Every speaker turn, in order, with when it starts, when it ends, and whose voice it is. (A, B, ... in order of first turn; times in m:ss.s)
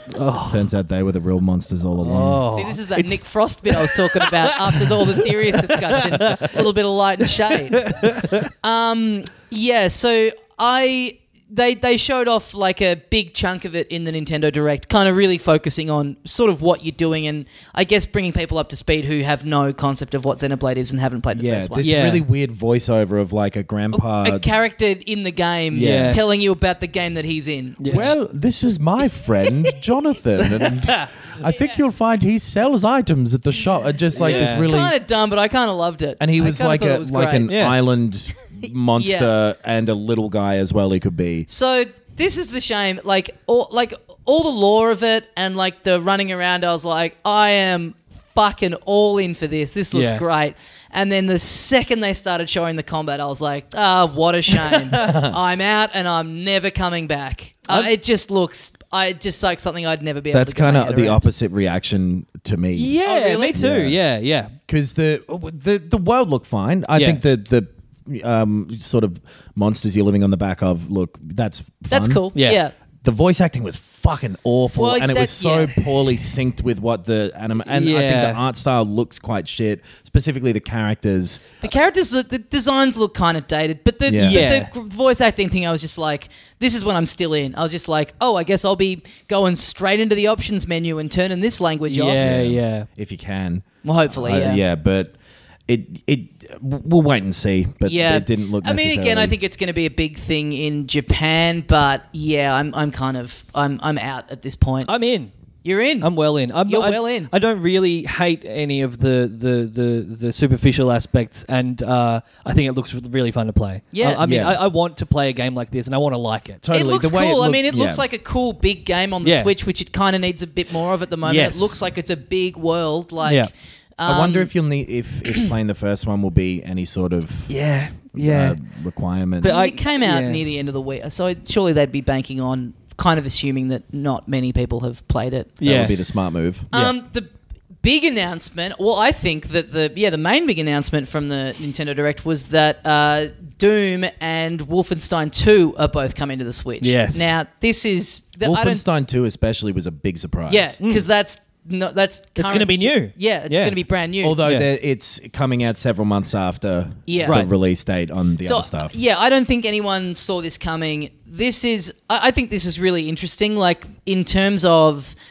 0:00.1-0:00.7 A
0:00.5-0:02.4 B
0:02.0-0:06.6 A
0:02.5-0:07.8 C
0:07.5-0:08.5 A
0:08.6-0:21.9 C
0:21.3-0:24.5 B
0:21.8-0:22.2 A
0:24.2-0:28.1 C
0:25.7-0:26.2 B
0:25.7-0:26.2 A
0:27.8-0:28.1 A
0:27.9-0:34.9 B
0:31.5-0:31.8 C
0:34.2-0:34.8 A
0:34.2-0:37.5 C
0:36.2-0:41.5 B
0:37.5-0:37.8 A
0:39.0-0:39.3 C
0:41.5-1:01.3 C
0:49.9-0:50.2 A
0:54.7-0:55.1 A
0:55.0-0:55.4 B
1:00.3-1:03.0 B
1:02.8-1:04.6 A
1:03.0-1:03.6 C
1:03.5-1:04.0 B
1:04.7-1:12.3 B
1:06.9-1:07.2 A
1:11.9-1:12.7 C
1:12.4-1:12.6 A
1:13.0-1:21.7 B
1:14.8-1:15.9 C
1:17.6-1:18.4 A
1:21.6-1:32.3 C
1:24.1-1:24.5 B
1:24.2-1:24.7 A
1:31.9-1:32.9 A
1:32.2-1:35.1 B
1:33.8-1:34.6 C
1:35.7-1:39.4 B
1:37.8-1:44.9 C
1:44.9-1:45.3 A
1:45.6-1:46.1 C
1:46.0-1:56.6 A
1:46.7-1:47.3 C
1:53.9-1:54.2 C
1:54.2-1:54.6 B
1:56.6-1:58.0 B
1:56.7-2:04.5 C
1:59.2-1:59.5 A
2:01.2-2:01.8 A
2:03.2-2:03.5 A
2:04.0-2:07.5 B
2:07.5-2:08.6 A
2:08.2-2:09.6 B
2:09.4-2:10.4 A
2:09.4-2:15.6 C
2:15.6-2:16.0 A
2:15.6-2:16.7 B
2:16.7-2:17.3 C
2:17.8-2:28.8 C
2:26.8-2:27.4 A
2:28.4-2:30.8 B
2:30.5-2:34.4 C
2:32.4-2:33.8 A
2:34.2-2:39.0 B
2:37.1-2:37.4 C
2:37.2-2:37.5 A
2:38.4-2:45.2 C